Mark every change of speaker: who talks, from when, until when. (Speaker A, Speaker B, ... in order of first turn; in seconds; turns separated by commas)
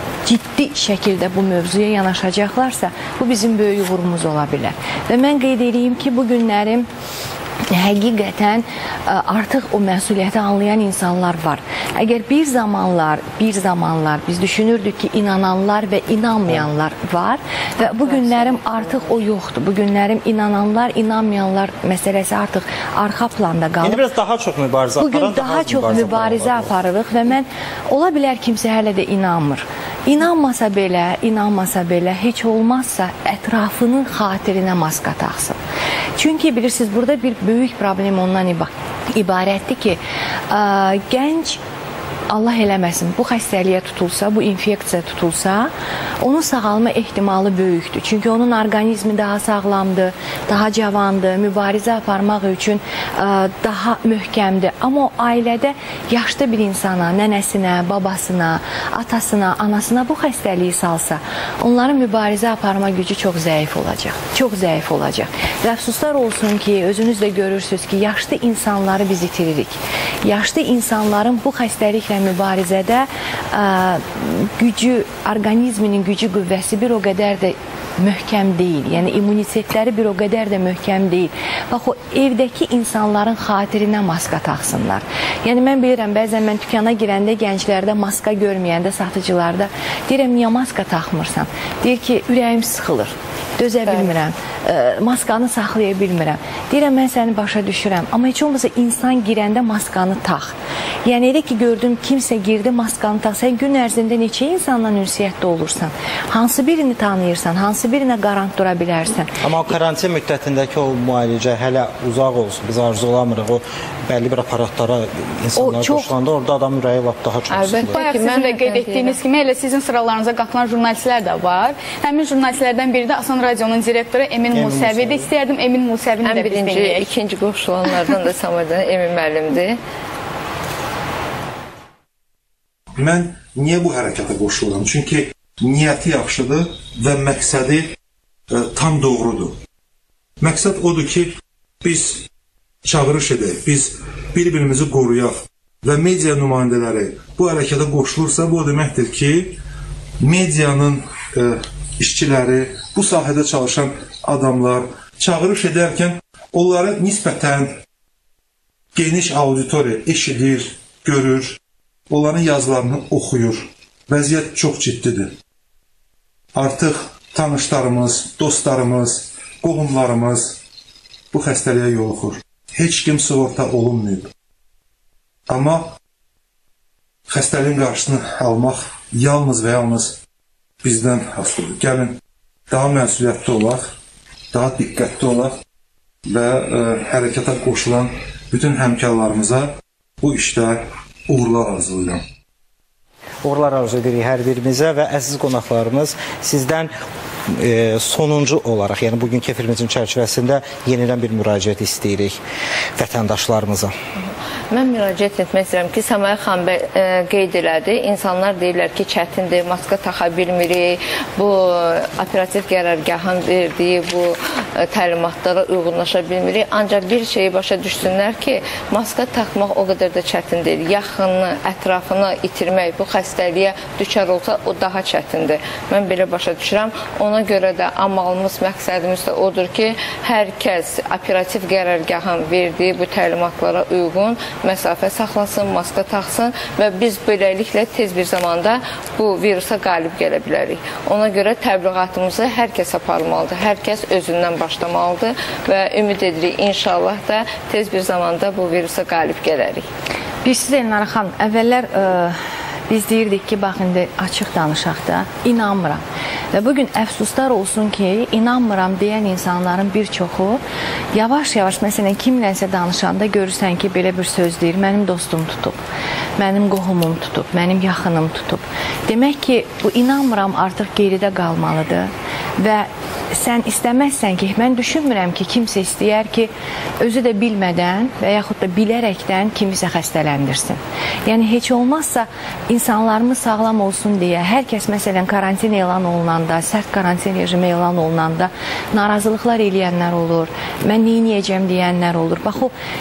Speaker A: 0.2-6.9, Speaker A: 7.7-24.0, Speaker B: 17.8-19.1, Speaker C: 23.8-26.7, Speaker A: 25.0-35.6, Speaker A: 36.2-40.0, Speaker A: 40.5-41.6, Speaker A: 42.3-45.7, Speaker A: 46.2-100.5, Speaker A: 101.0-109.3, Speaker C: 109.4-118.0, Speaker A: 115.6-116.1, Speaker B: 117.5-119.2, Speaker D: 117.9-127.1, Speaker C: 124.5-125.3, Speaker B: 126.2-129.8, Speaker E: 133.0-137.8, Speaker E: 138.5-139.6, Speaker E: 140.4-142.2, Speaker E: 142.8-149.6, Speaker E: 150.2-157.7, Speaker E: 158.9-161.6, Speaker E: 162.1-165.3, Speaker E: 166.6-170.6, Speaker E: 171.3-174.3, Speaker E: 175.5-175.9, Speaker E: 177.3-180.2, Speaker E: 180.8-183.9, Speaker E: 184.5-185.5, Speaker E: 186.3-189.7, Speaker E: 190.2-192.2, Speaker C: 193.4-196.9, Speaker C: 197.6-202.4, Speaker C: 203.0-203.9, Speaker B: 204.7-249.8, Speaker A: 250.4-252.3, Speaker A: 252.9-260.6, Speaker A: 261.1-265.8, Speaker A: 266.4-292.7